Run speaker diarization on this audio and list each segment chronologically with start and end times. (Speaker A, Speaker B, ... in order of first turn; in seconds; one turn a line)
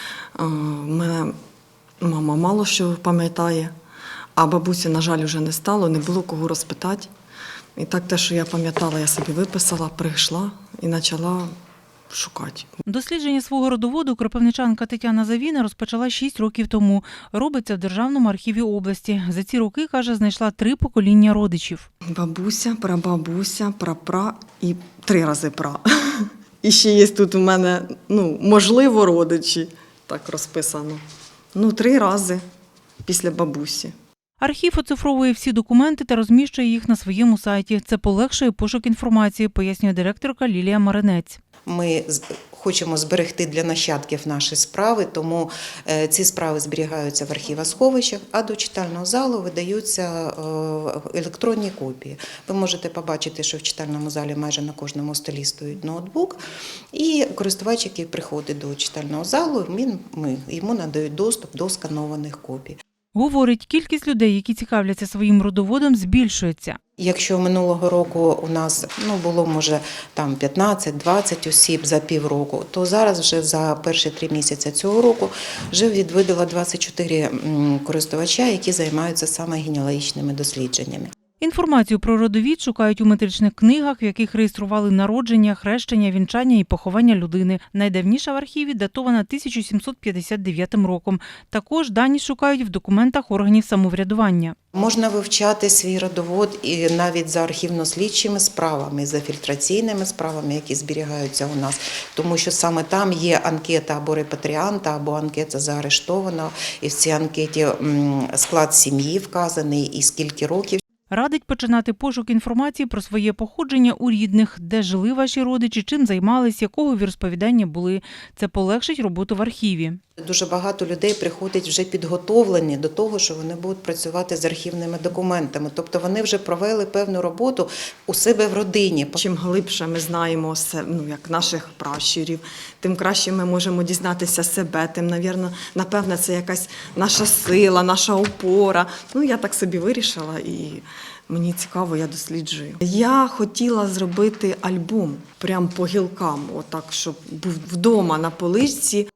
Speaker A: 0.3-1.3
Speaker A: 2.0-3.7
Speaker A: 4.4-7.1
Speaker A: 7.8-11.5
Speaker A: 12.1-12.7
Speaker B: 12.8-21.9
Speaker A: 22.1-31.0
Speaker A: 31.5-32.4
Speaker A: 33.0-33.9
Speaker B: 34.4-41.4
Speaker C: 41.6-56.4
Speaker C: 56.9-62.8
Speaker B: 63.1-66.8
Speaker C: 67.0-81.1
Speaker B: 81.4-94.5
Speaker C: 94.7-110.8
Speaker B: 111.1-120.0
Speaker C: 120.2-129.2
Speaker A: 129.1-149.1